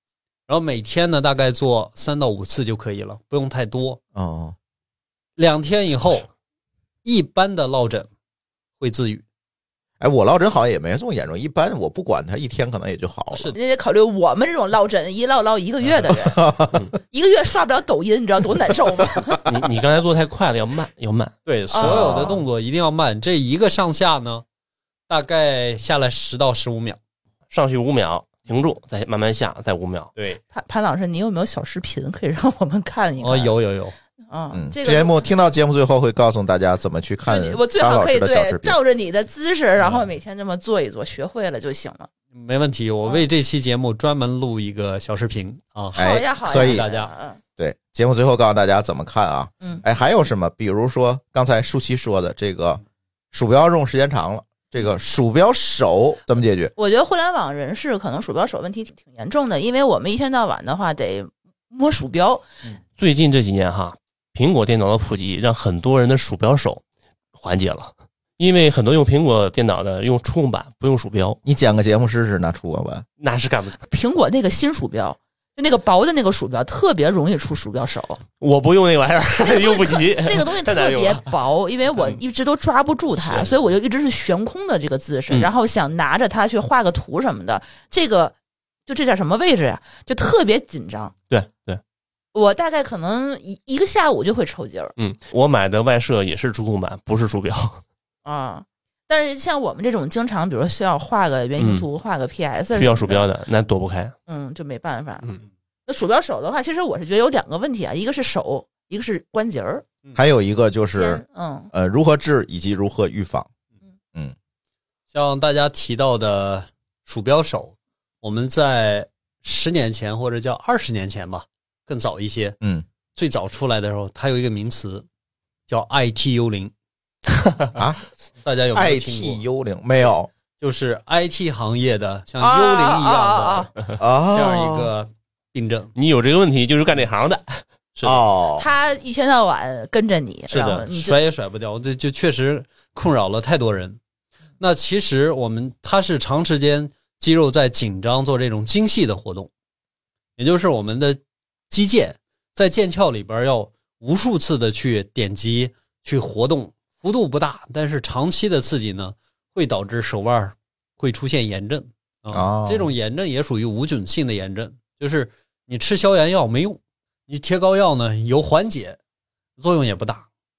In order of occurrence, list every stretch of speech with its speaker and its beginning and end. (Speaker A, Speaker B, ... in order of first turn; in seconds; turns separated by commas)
Speaker A: 0.5-4.0, Speaker B: 4.2-4.5, Speaker A: 5.4-6.3, Speaker A: 7.0-8.1, Speaker A: 8.8-9.2, Speaker B: 10.0-13.5, Speaker A: 13.3-13.6, Speaker C: 13.5-16.4, Speaker B: 16.2-16.8, Speaker C: 17.1-19.4, Speaker D: 19.4-21.4, Speaker A: 21.5-24.4, Speaker C: 21.7-22.4, Speaker B: 21.8-22.4, Speaker A: 25.1-27.0, Speaker D: 27.5-30.1, Speaker A: 30.2-30.4, Speaker C: 30.5-33.6, Speaker A: 33.2-34.0, Speaker C: 34.3-35.2, Speaker B: 34.5-38.8, Speaker C: 37.3-42.1, Speaker A: 39.8-40.0, Speaker A: 42.3-47.1, Speaker C: 45.9-47.4, Speaker B: 46.0-46.9, Speaker B: 47.6-52.8, Speaker B: 53.3-56.7, Speaker C: 56.8-62.5, Speaker D: 63.0-66.8, Speaker D: 67.3-71.4, Speaker B: 71.5-73.0, Speaker D: 73.2-73.8, Speaker C: 73.9-78.2, Speaker D: 78.4-81.2, Speaker C: 79.4-88.3, Speaker C: 88.9-91.1, Speaker D: 91.3-91.8, Speaker C: 92.3-94.9, Speaker D: 95.0-97.8, Speaker C: 98.2-103.2, Speaker D: 101.6-101.9, Speaker D: 102.8-104.2, Speaker C: 104.3-105.3, Speaker C: 105.9-109.8, Speaker B: 110.2-113.5, Speaker C: 110.9-111.7, Speaker A: 115.1-122.6, Speaker B: 122.6-122.9, Speaker A: 123.1-125.1, Speaker A: 125.7-126.7, Speaker B: 127.8-128.0, Speaker A: 128.4-129.4, Speaker B: 128.7-130.3, Speaker A: 130.6-133.7, Speaker C: 132.4-133.7, Speaker B: 134.0-134.9, Speaker A: 134.3-135.9, Speaker D: 136.0-137.6, Speaker A: 137.9-138.2, Speaker B: 138.0-138.7, Speaker C: 138.6-141.2, Speaker A: 140.5-144.0, Speaker A: 144.6-149.5, Speaker A: 150.4-169.0, Speaker B: 162.3-162.9, Speaker A: 169.6-170.3